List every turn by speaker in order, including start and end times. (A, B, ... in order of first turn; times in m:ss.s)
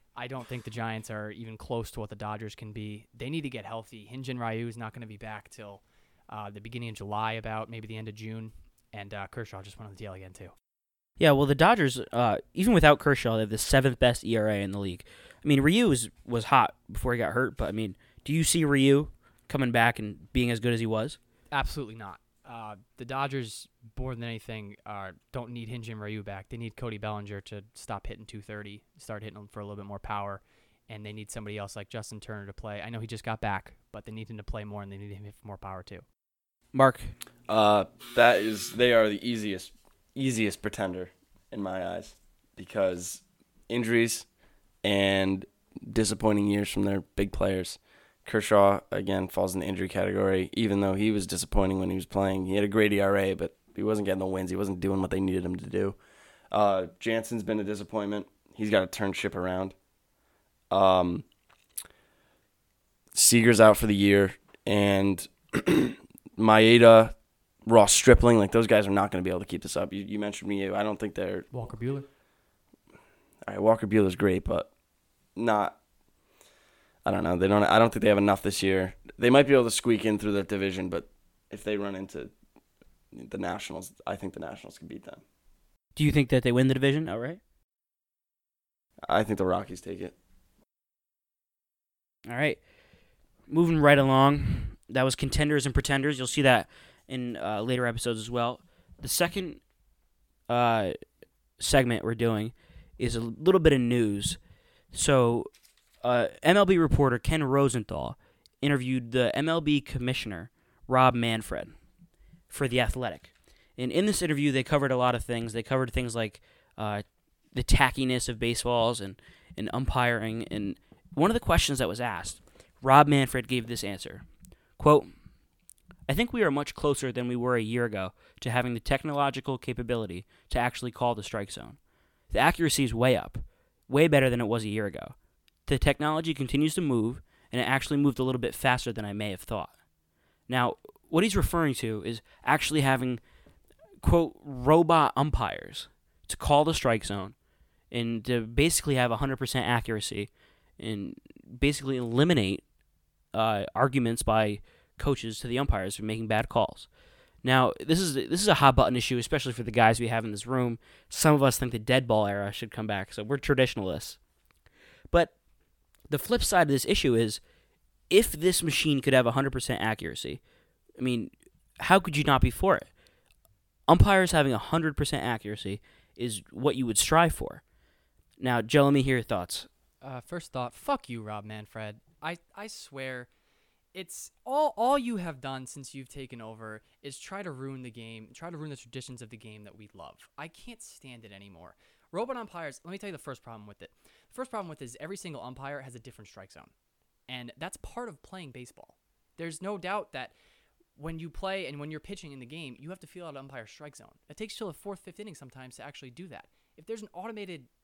0:00.2-0:10.5 A
0:11.2-0:21.2 B
0:21.5-0:36.0 A
0:36.7-0:37.1 B
0:37.5-0:44.3 C
0:44.8-0:56.0 C
0:56.5-0:59.8 C
1:00.7-1:01.2 C
1:03.1-1:07.1 C
1:07.6-1:11.5 C
1:11.5-1:12.1 A
1:13.4-1:14.7 C
1:15.4-1:15.8 C
1:17.0-1:22.3 C
1:23.1-1:25.2 C
1:26.0-1:27.4 B
1:29.1-1:30.1 C
1:32.3-1:32.6 B
1:33.5-1:39.6 B
1:40.5-1:41.0 B
1:41.6-1:44.4 B
1:44.9-1:45.5 B
1:46.0-1:51.8 B
1:52.5-2:04.2 B
2:04.8-2:05.1 B
2:06.1-2:11.8 B
2:12.3-2:19.7 B
2:20.5-2:23.2 B
2:24.0-2:27.4 B
2:27.9-2:32.6 B
2:33.3-2:36.9 B
2:37.4-2:44.2 B
2:46.1-2:47.4 B
2:48.1-2:50.4 B
2:51.0-2:52.9 B
2:53.9-2:57.6 B
2:58.4-2:59.7 B
3:00.0-3:03.3 A
3:03.9-3:16.7 A
3:17.3-3:20.3 A
3:21.0-3:27.7 A